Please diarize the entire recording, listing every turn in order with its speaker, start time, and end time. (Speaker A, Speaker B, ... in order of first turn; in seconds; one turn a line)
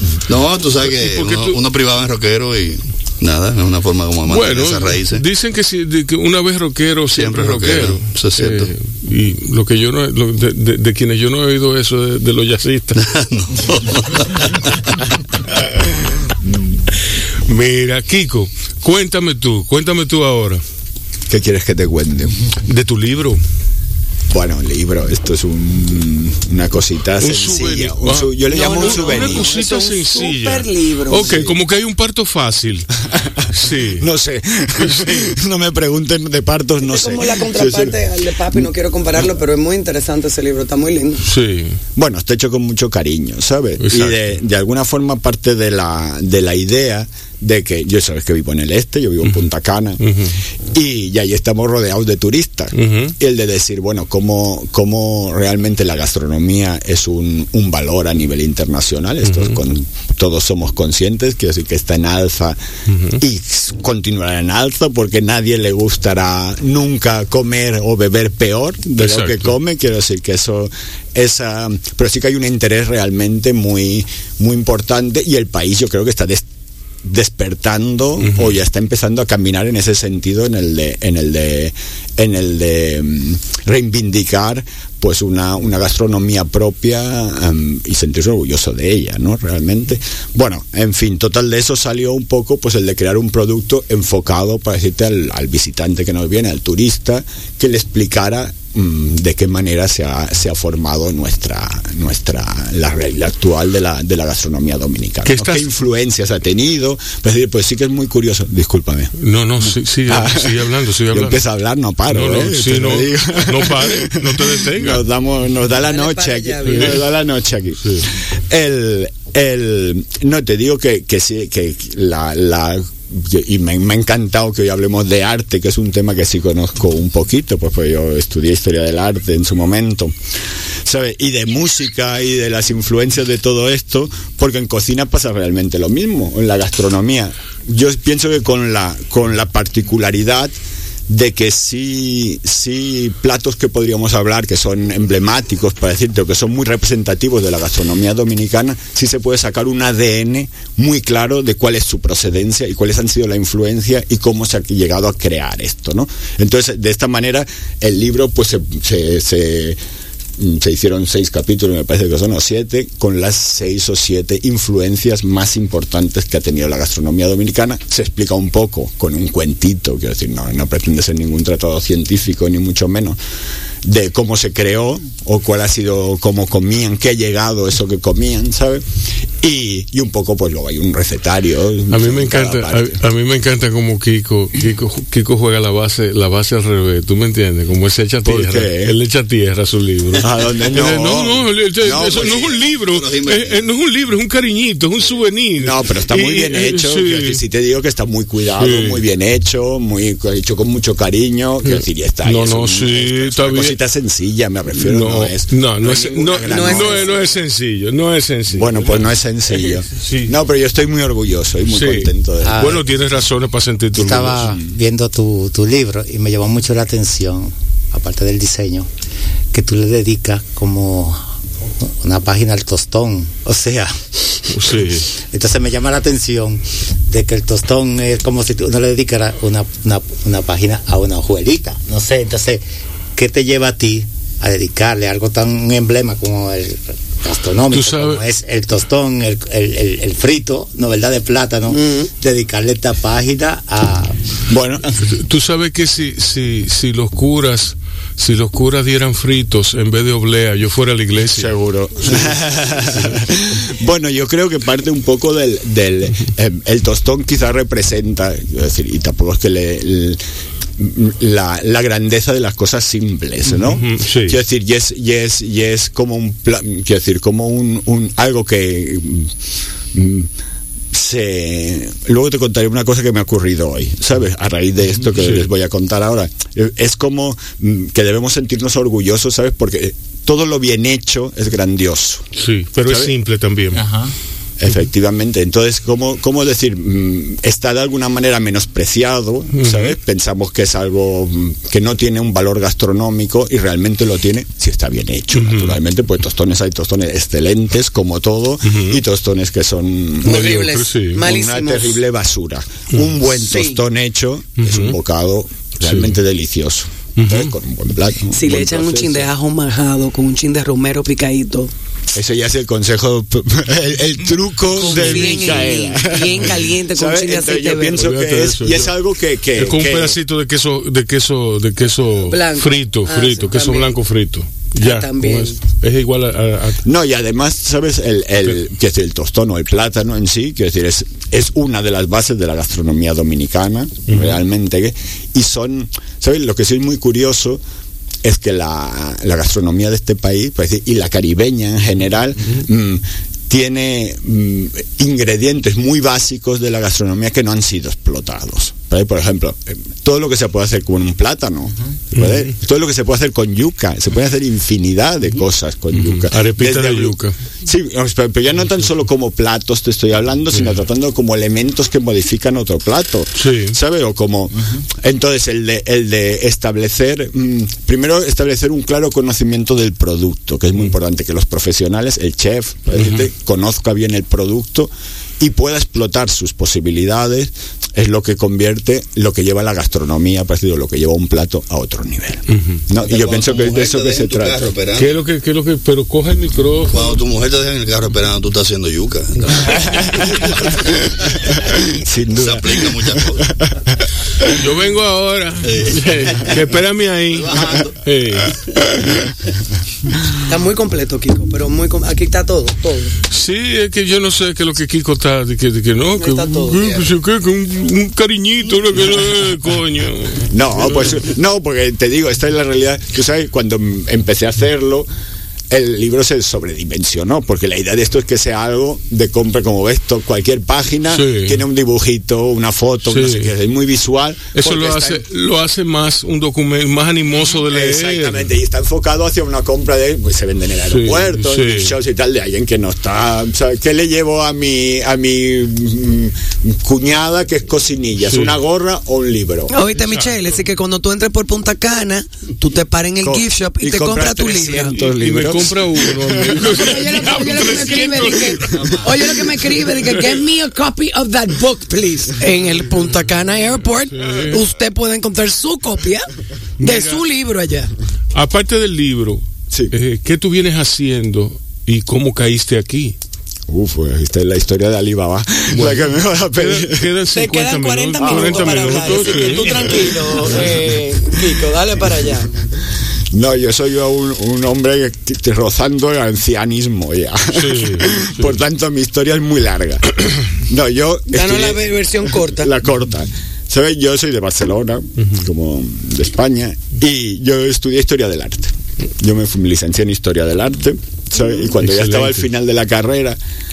Speaker A: 0.3-5.2
Speaker B: 0.9-1.6
Speaker B: 4.2-13.0
Speaker A: 7.1-8.7
Speaker A: 12.9-15.0
Speaker C: 16.5-16.7
Speaker B: 17.4-20.6
Speaker C: 21.3-22.3
Speaker B: 22.6-23.4
Speaker C: 24.3-29.5
Speaker B: 27.2-32.9
Speaker D: 28.5-31.5
Speaker C: 33.2-38.0
Speaker B: 33.5-34.0
Speaker B: 34.8-35.3
Speaker D: 36.8-41.2
Speaker B: 41.2-41.8
Speaker C: 42.0-50.0
Speaker B: 43.8-44.3
Speaker B: 50.0-50.3
Speaker C: 50.7-62.6
Speaker B: 52.7-53.1
Speaker B: 59.2-59.6
Speaker B: 62.9-63.2
Speaker C: 63.1-76.4
Speaker B: 69.0-69.5
Speaker C: 77.0-109.1
Speaker B: 78.2-78.5
Speaker B: 105.2-105.7
Speaker B: 109.2-111.4
Speaker C: 109.7-130.1
Speaker B: 112.1-115.0
Speaker D: 115.7-117.1
Speaker B: 116.7-117.0
Speaker C: 130.8-140.5
Speaker C: 141.1-159.8
Speaker C: 160.4-173.2
Speaker C: 173.8-178.8
Speaker C: 179.4-183.0
Speaker B: 181.9-197.4
Speaker C: 188.2-189.0
Speaker C: 190.2-192.5
Speaker A: 192.0-193.6
Speaker C: 195.6-207.1
Speaker B: 198.5-199.0
Speaker B: 201.6-203.8
Speaker B: 204.7-210.4
Speaker D: 206.4-207.1
Speaker C: 208.5-212.8
Speaker B: 211.7-214.5
Speaker E: 212.4-212.8
Speaker E: 213.9-218.9
Speaker C: 214.1-214.6
Speaker E: 219.5-221.2
Speaker E: 221.8-224.1
Speaker B: 224.5-225.1
Speaker E: 225.2-232.6
Speaker E: 233.1-244.2
Speaker B: 237.7-238.2
Speaker D: 241.7-242.1
Speaker C: 244.5-244.8
Speaker B: 245.0-252.3
Speaker C: 251.2-260.2
Speaker C: 260.8-269.3
Speaker B: 263.6-264.4
Speaker C: 269.9-270.3
Speaker C: 270.9-282.2
Speaker B: 275.1-275.4
Speaker B: 282.3-283.8
Speaker C: 282.8-283.1
Speaker E: 283.7-284.1
Speaker C: 284.6-300.6
Speaker B: 289.5-289.9
Speaker B: 295.3-295.8
Speaker B: 298.6-299.0
Speaker D: 300.2-302.0
Speaker B: 300.2-301.2
Speaker C: 301.2-309.3
Speaker D: 303.3-303.8
Speaker B: 304.6-305.0
Speaker B: 305.8-306.2
Speaker B: 307.2-307.5
Speaker D: 308.3-311.7
Speaker C: 312.1-320.2
Speaker D: 314.6-318.0
Speaker B: 314.8-315.6
Speaker B: 317.9-318.9
Speaker B: 319.5-326.8
Speaker D: 322.3-323.9
Speaker D: 324.8-325.6
Speaker C: 326.8-337.6
Speaker B: 334.1-334.4
Speaker C: 338.2-384.7
Speaker B: 352.1-352.5
Speaker B: 355.9-357.4
Speaker B: 360.5-360.8
Speaker B: 363.4-363.8
Speaker B: 372.9-373.3
Speaker B: 382.5-382.8
Speaker A: 383.0-385.1
Speaker B: 384.9-387.2
Speaker A: 386.9-391.6
Speaker C: 389.7-391.1
Speaker C: 391.6-393.7
Speaker A: 392.3-393.5
Speaker B: 394.5-398.6
Speaker A: 395.6-396.6
Speaker A: 397.3-397.9
Speaker D: 400.4-403.2
Speaker B: 403.3-411.2
Speaker D: 406.1-407.1
Speaker C: 410.5-415.1
Speaker C: 415.7-425.2
Speaker B: 421.1-421.6
Speaker B: 423.1-423.5
Speaker B: 424.5-428.4
Speaker C: 427.6-439.7
Speaker B: 430.9-431.9
Speaker B: 438.2-438.6
Speaker D: 439.7-445.0
Speaker B: 440.0-440.4
Speaker C: 443.2-446.7
Speaker B: 444.9-449.4
Speaker D: 446.6-456.3
Speaker B: 454.1-454.6
Speaker B: 456.8-457.2
Speaker D: 456.8-457.9
Speaker B: 458.3-463.2
Speaker C: 463.7-467.1
Speaker B: 465.7-470.6
Speaker D: 467.3-472.5
Speaker C: 468.2-470.5
Speaker C: 473.3-481.9
Speaker B: 477.5-478.6
Speaker D: 481.3-482.7
Speaker C: 482.5-493.4
Speaker B: 491.7-492.4